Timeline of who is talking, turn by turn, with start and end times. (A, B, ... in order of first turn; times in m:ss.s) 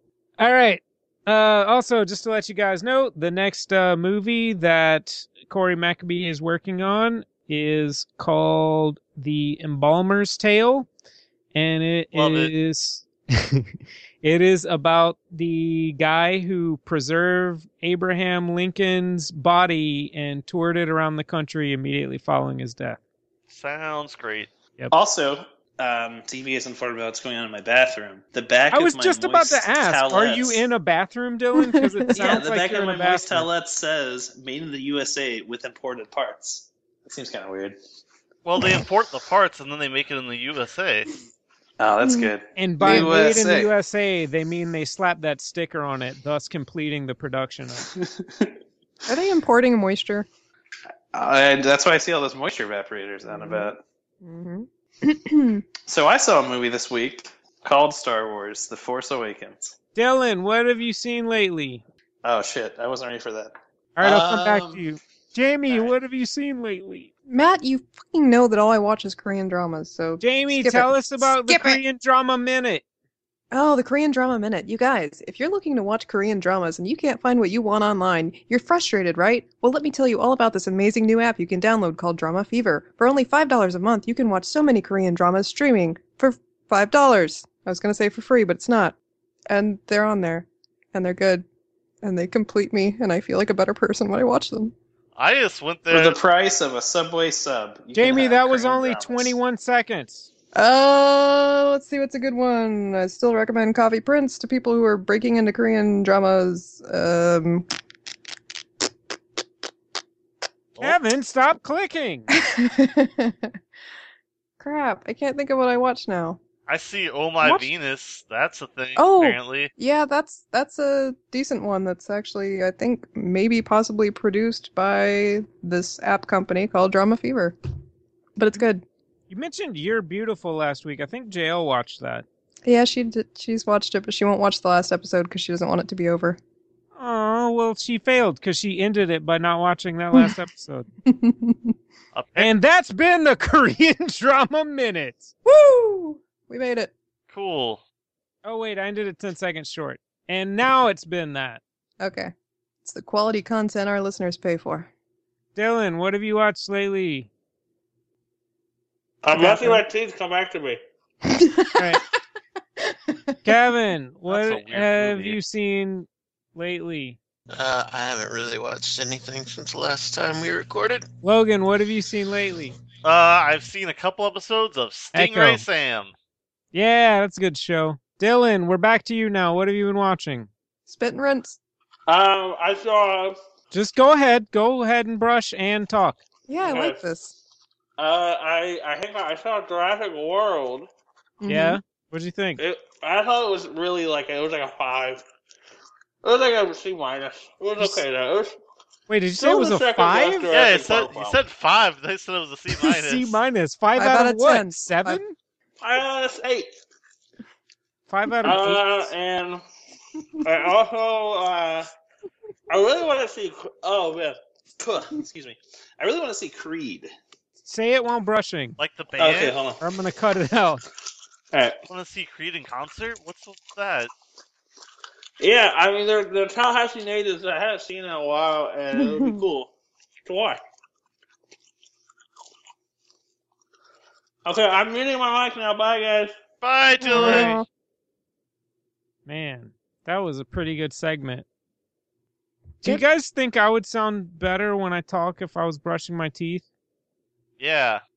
0:00.4-0:10.9 A
0:11.5-0:13.7 A
0:12.1-0:12.5 B
0:14.2-0:23.0 A
0:23.5-0:24.5 B
0:24.9-0:30.6 C
0:28.7-0:33.5 A
0:31.6-0:32.3 D
0:32.1-0:37.8 C
0:38.4-0:41.1 B
0:41.8-0:43.7 C
0:42.0-0:42.3 D
0:42.6-0:47.9 A
0:42.8-0:43.1 D
0:48.0-0:48.5 C
0:49.1-0:50.3 D
0:51.1-0:53.8 C
0:53.3-0:53.7 D
0:54.2-0:55.6 D
0:55.9-0:59.8 C
1:00.0-1:01.8 A
1:02.2-1:04.8 C
1:04.0-1:07.1 A
1:07.3-1:11.8 D
1:10.2-1:12.8 A
1:13.5-1:29.0 D
1:29.5-1:31.4 D
1:32.0-1:34.7 D
1:35.2-1:36.2 B
1:35.9-1:39.4 C
1:37.9-1:40.3 A
1:40.6-1:47.7 D
1:50.8-1:52.3 A
1:52.4-1:53.6 D
1:54.6-1:56.4 D
1:56.7-1:59.7 B
1:57.4-1:57.7 D
1:59.0-2:07.6 D
2:08.4-2:08.8 D
2:09.3-2:12.3 A
2:12.7-2:16.4 D
2:17.0-2:20.9 A
2:21.1-2:21.7 D
2:22.1-2:22.5 B
2:22.4-2:25.3 A
2:25.4-2:26.9 D
2:27.3-2:27.8 B
2:28.4-2:31.6 A
2:32.0-2:32.3 D
2:32.8-2:34.9 D
2:35.6-2:37.3 A
2:39.2-2:40.8 E
2:39.3-2:39.8 D
2:41.3-2:42.0 D
2:41.8-2:42.0 A
2:42.8-2:43.4 D
2:43.4-2:47.2 A
2:44.3-2:45.4 B
2:47.5-2:51.1 F
2:51.2-2:52.8 A
2:53.0-2:56.1 B
2:55.1-2:55.7 A
2:56.7-3:00.5 A
3:00.9-3:01.6 D
3:02.1-3:03.3 E
3:03.7-3:06.2 A
3:06.5-3:07.3 D
3:06.6-3:07.0 E
3:08.0-3:10.9 E
3:11.4-3:11.8 D
3:11.5-3:12.6 A
3:12.6-3:15.2 E
3:13.6-3:14.5 C
3:16.2-3:18.5 E
3:19.1-3:20.5 A
3:19.4-3:21.4 E
3:19.9-3:21.1 C
3:20.5-3:23.4 B
3:22.8-3:25.4 A
3:24.0-3:25.2 D
3:25.8-3:26.7 E
3:28.1-3:29.1 A
3:28.4-3:29.6 E
3:29.2-3:29.4 C
3:30.4-3:31.8 E
3:32.7-3:34.4 E
3:34.8-3:37.1 C
3:37.6-3:38.8 A
3:38.8-3:39.6 B
3:39.2-3:39.8 C
3:39.8-3:40.8 A
3:41.9-3:44.1 B
3:45.4-3:49.7 E
3:45.5-3:46.5 C
3:47.4-3:49.6 C
3:49.0-3:49.4 D
3:50.3-3:50.6 E
3:54.5-3:56.3 E
3:54.5-3:56.2 C
3:56.6-3:57.6 B
3:57.0-3:57.7 D
3:57.1-3:57.6 A
3:59.3-4:01.5 A
4:02.8-4:06.6 A
4:07.6-4:08.0 B